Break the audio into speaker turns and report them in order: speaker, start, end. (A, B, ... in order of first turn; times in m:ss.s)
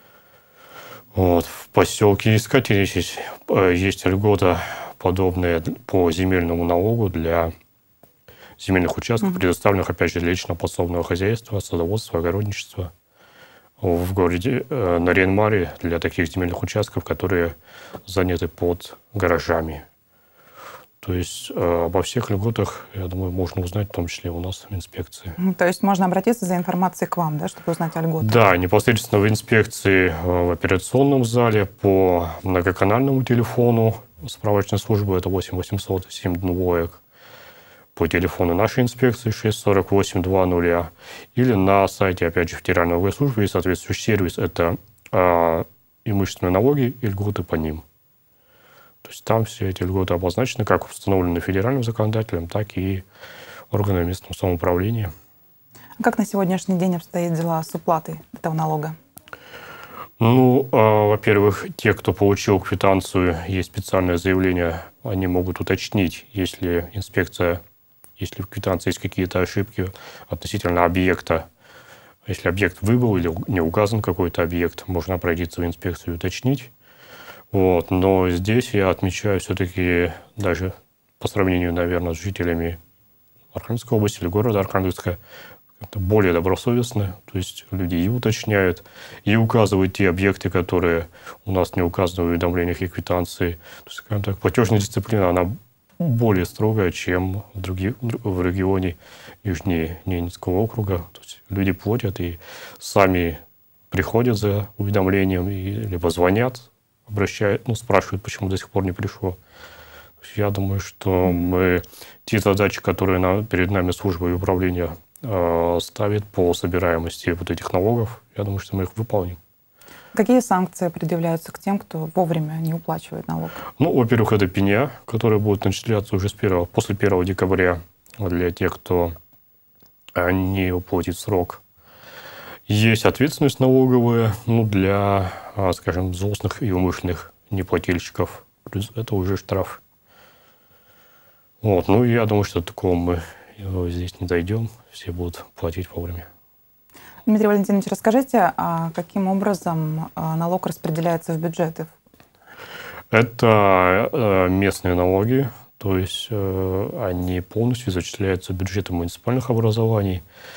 0:01.1-0:07.5 A
0:08.6-0:12.9 A
0:13.8-0:19.8 A
0:21.0-0:25.4 A
0:25.4-0:28.3 B
0:28.2-0:37.0 A
0:38.0-0:47.8 A
0:49.0-0:53.0 A
0:53.7-0:55.1 A
0:56.0-0:59.0 B
1:00.2-1:07.6 A
1:08.2-1:11.5 A
1:12.2-1:16.7 A
1:17.5-1:22.8 A
1:23.5-1:25.2 A
1:25.8-1:43.4 A
1:43.9-1:49.4 A
1:50.2-1:59.4 A
2:00.1-2:03.6 B
2:03.7-2:09.2 A
2:10.1-2:11.6 A
2:12.7-2:19.8 A
2:21.6-2:26.3 A
2:27.2-2:31.9 B
2:33.1-2:40.2 A